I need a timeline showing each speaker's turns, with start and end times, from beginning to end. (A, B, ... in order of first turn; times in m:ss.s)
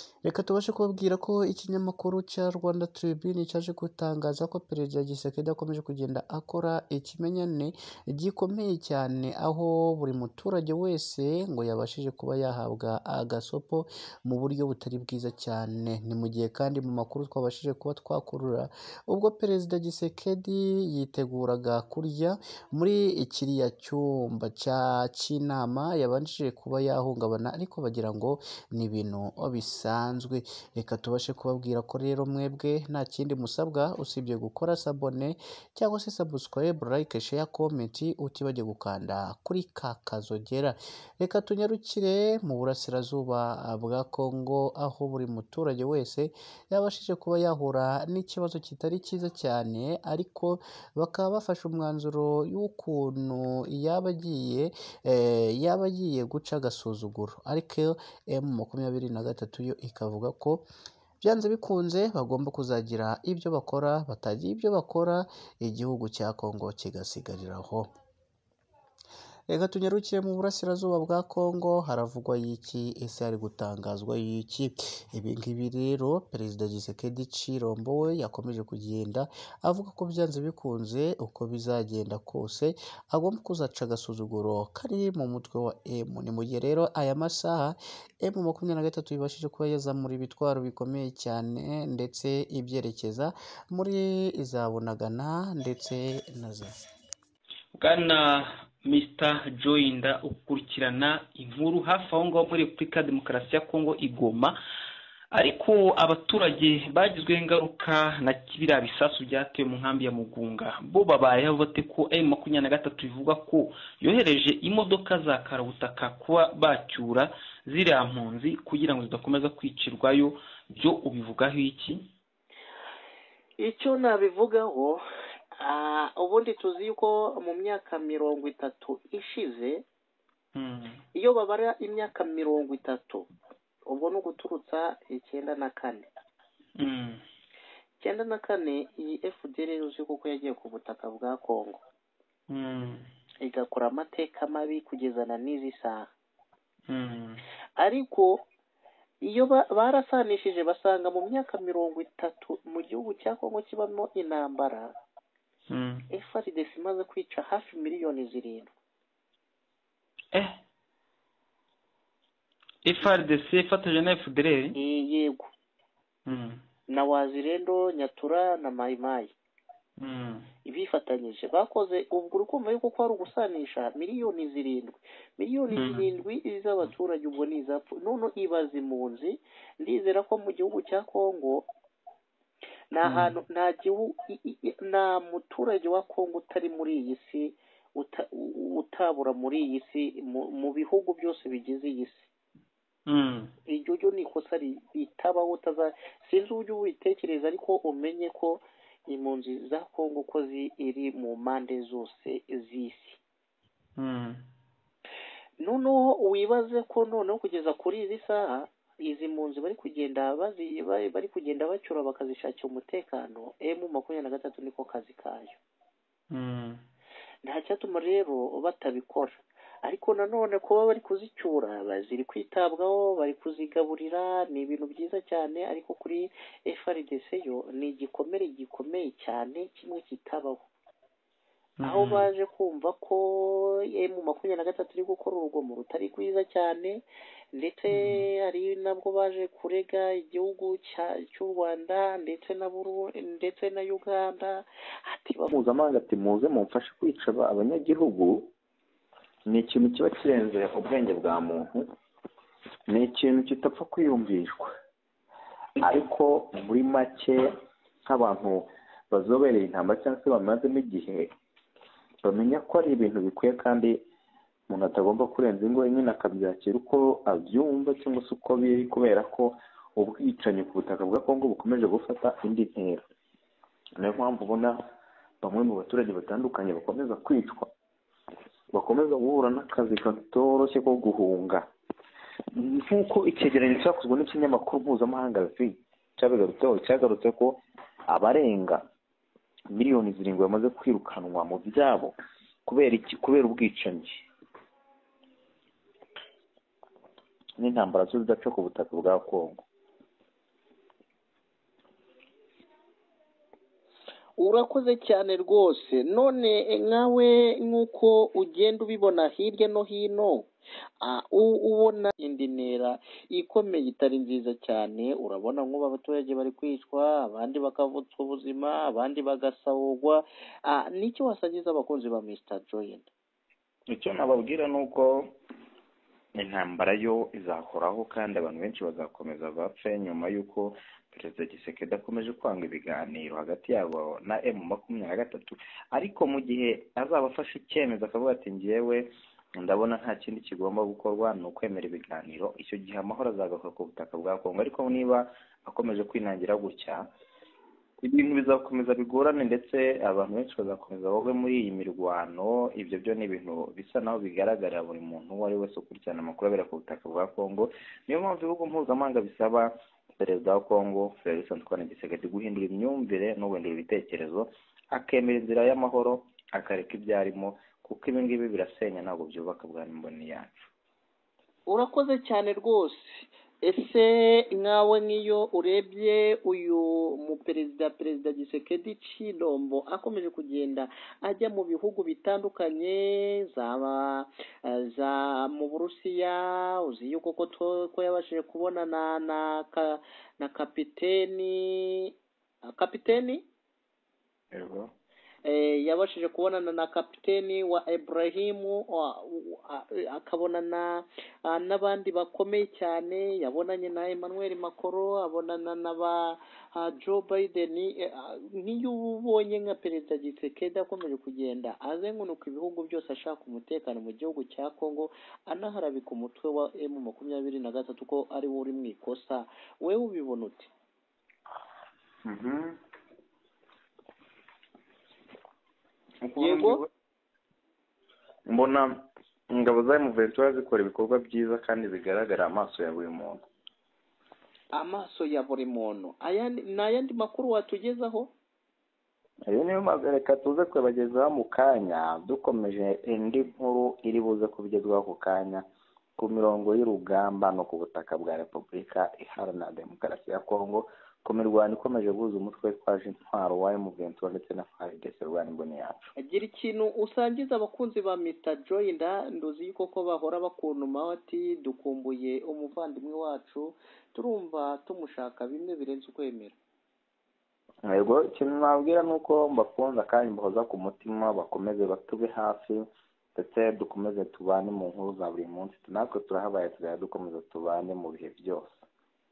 0:00.2-1:00.7 A
1:01.2-1:07.9 A
1:09.5-1:36.7 A
1:37.8-1:44.6 B
1:45.3-2:02.0 B
2:03.6-2:05.0 C
2:05.6-2:09.8 C
2:10.5-2:11.0 B
2:11.1-2:13.3 C
2:13.9-2:16.1 C
2:16.8-2:17.2 B
2:18.0-2:21.8 C
2:22.5-2:23.0 B
2:23.4-2:26.1 C
2:26.9-2:27.4 B
2:27.8-2:28.4 C
2:29.2-2:35.0 C
2:35.7-2:36.0 B
2:36.1-2:38.7 C
2:42.8-2:44.8 B
2:44.7-2:45.5 C
2:46.3-2:46.6 B
2:46.9-2:49.3 C
2:50.0-2:50.5 B
2:50.6-3:01.7 C
2:55.7-2:56.0 B
3:02.9-3:12.3 C
3:03.0-3:03.3 B
3:13.1-3:13.5 B
3:13.6-3:23.2 C
3:24.0-3:24.4 B
3:25.6-3:35.6 C
3:36.3-3:36.8 B
3:37.4-3:50.6 C
3:51.8-3:52.3 B
3:51.8-4:05.5 C
3:57.9-3:58.2 B
4:05.5-4:08.5 D
4:09.5-4:11.8 D
4:12.9-4:14.7 D
4:15.8-4:17.4 D
4:18.0-4:21.3 D
4:22.2-4:24.0 D
4:24.7-4:33.0 D
4:34.0-4:34.8 D
4:35.4-4:37.7 D
4:38.7-4:41.6 D
4:42.5-4:48.8 D
4:49.7-4:52.1 D
4:52.6-4:54.2 D
4:57.6-4:59.6 D
5:04.4-5:10.5 C
5:11.0-5:23.1 C
5:23.9-5:25.3 D
5:26.4-5:47.0 D
5:48.0-6:10.6 D
6:11.7-6:33.4 C
6:34.5-6:34.9 D
6:35.4-7:00.7 C
7:02.2-7:02.8 D
7:06.2-7:06.9 D
7:06.4-7:06.8 C
7:08.5-7:13.4 D
7:14.7-7:18.3 C
7:19.5-7:25.6 D
7:26.2-7:36.1 D
7:36.2-7:46.6 C
7:47.9-7:52.8 D
7:53.3-7:58.8 D